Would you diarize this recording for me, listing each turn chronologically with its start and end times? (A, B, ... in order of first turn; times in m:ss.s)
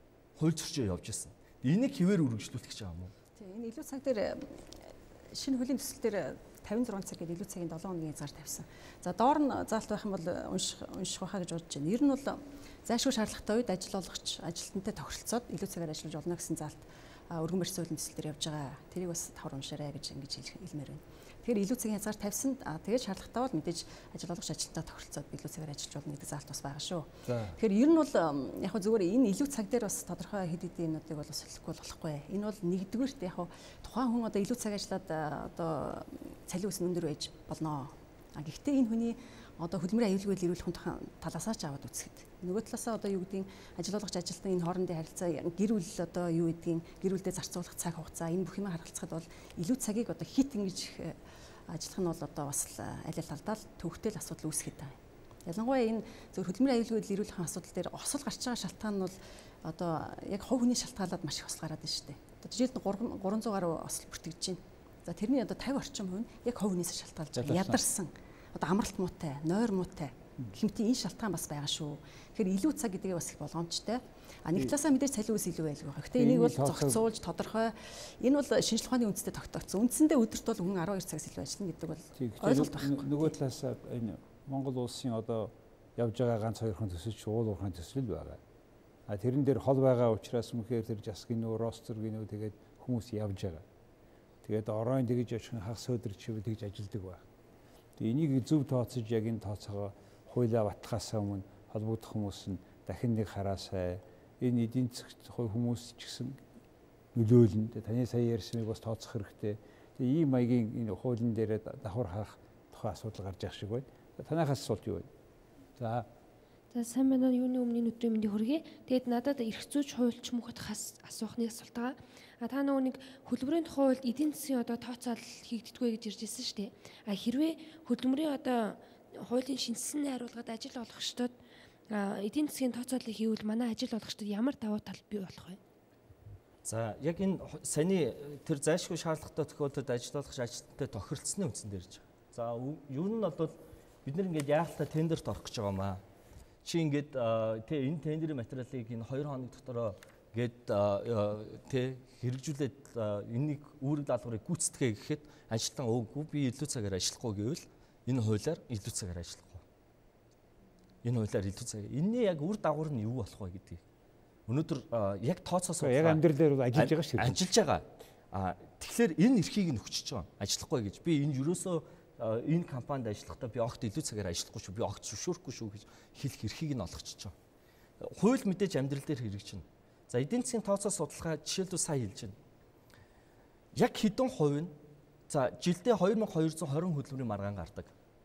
0:00.4-0:03.1 A
0:03.4-0:54.9 B
0:27.2-0:27.6 C
0:55.4-1:23.4 B
1:07.4-1:07.8 C
1:16.1-1:17.0 C
1:22.2-1:28.4 C
1:29.1-1:33.6 C
1:34.4-1:37.2 C
1:38.0-1:46.4 C
1:47.1-1:55.1 C
1:55.8-1:56.1 C
1:56.7-2:11.4 D
2:11.9-2:15.6 D
2:16.6-2:26.0 A
2:26.6-2:39.6 A
2:41.0-2:43.8 A
2:44.5-2:57.3 A
2:45.8-2:47.6 C
2:58.0-3:02.3 A
3:03.7-3:04.7 A
3:05.3-3:07.9 A